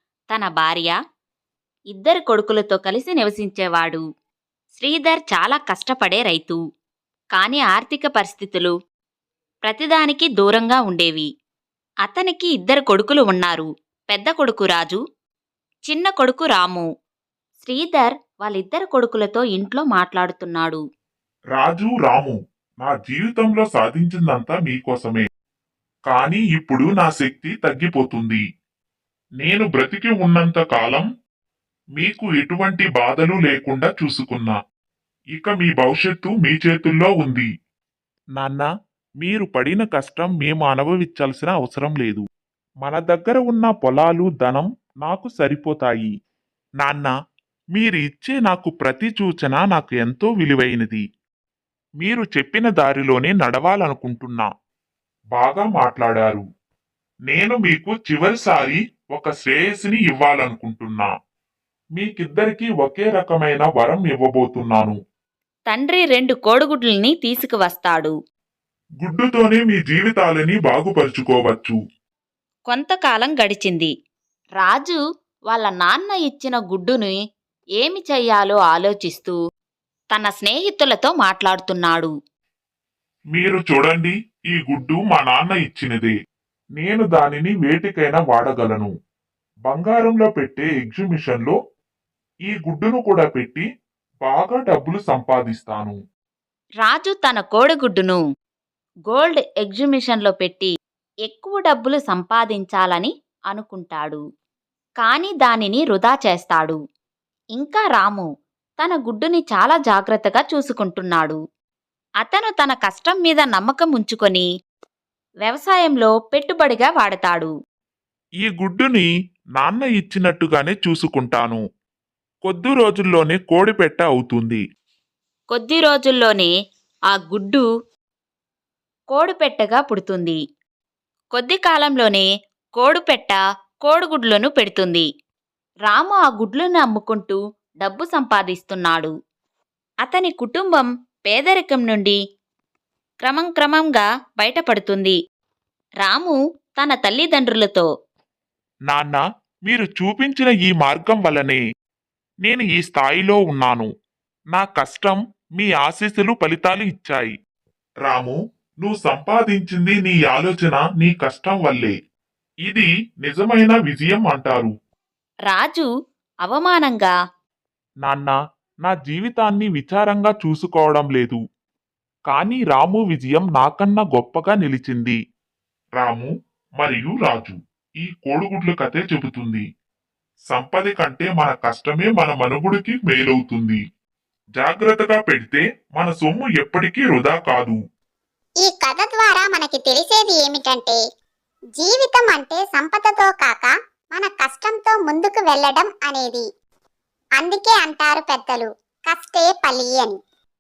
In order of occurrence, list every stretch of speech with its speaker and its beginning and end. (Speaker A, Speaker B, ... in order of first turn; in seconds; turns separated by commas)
Speaker A: 0.3-0.9, Speaker A: 1.9-4.0, Speaker A: 4.8-6.6, Speaker A: 7.4-8.7, Speaker A: 9.7-11.3, Speaker A: 12.0-15.0, Speaker A: 15.9-16.9, Speaker A: 17.6-20.8, Speaker B: 21.6-25.2, Speaker B: 26.1-28.4, Speaker B: 29.4-31.1, Speaker B: 32.0-34.6, Speaker B: 35.3-37.5, Speaker B: 38.4-38.7, Speaker B: 39.2-42.2, Speaker B: 42.8-46.1, Speaker B: 46.8-47.1, Speaker B: 47.8-51.0, Speaker B: 52.0-54.5, Speaker B: 55.3-56.4, Speaker B: 57.3-61.1, Speaker B: 62.0-65.0, Speaker A: 65.7-68.1, Speaker B: 69.0-71.8, Speaker A: 72.7-73.9, Speaker A: 74.6-77.2, Speaker A: 77.8-79.4, Speaker A: 80.1-82.1, Speaker B: 83.3-86.1, Speaker B: 86.8-88.9, Speaker B: 89.7-91.5, Speaker B: 92.5-93.6, Speaker B: 94.2-96.0, Speaker A: 96.8-98.2, Speaker A: 99.1-100.7, Speaker A: 101.3-104.2, Speaker A: 105.0-106.8, Speaker A: 107.6-108.3, Speaker A: 108.8-111.4, Speaker A: 112.2-114.5, Speaker A: 115.4-117.5, Speaker B: 118.4-121.6, Speaker B: 122.5-124.6, Speaker A: 125.5-126.5, Speaker A: 127.1-127.7, Speaker A: 129.1-130.4, Speaker A: 131.3-135.1, Speaker A: 135.9-139.1, Speaker A: 140.0-142.2, Speaker A: 143.2-145.2, Speaker A: 146.0-147.9, Speaker B: 148.9-151.6, Speaker B: 152.4-153.9, Speaker B: 154.5-157.3, Speaker B: 158.1-161.9, Speaker B: 162.7-164.7, Speaker A: 165.5-165.9, Speaker A: 166.4-167.1, Speaker B: 168.0-171.4, Speaker B: 172.3-175.2, Speaker B: 176.0-179.6, Speaker B: 180.5-183.8, Speaker B: 184.6-187.8, Speaker C: 188.6-191.0, Speaker C: 191.8-196.4, Speaker C: 197.4-200.2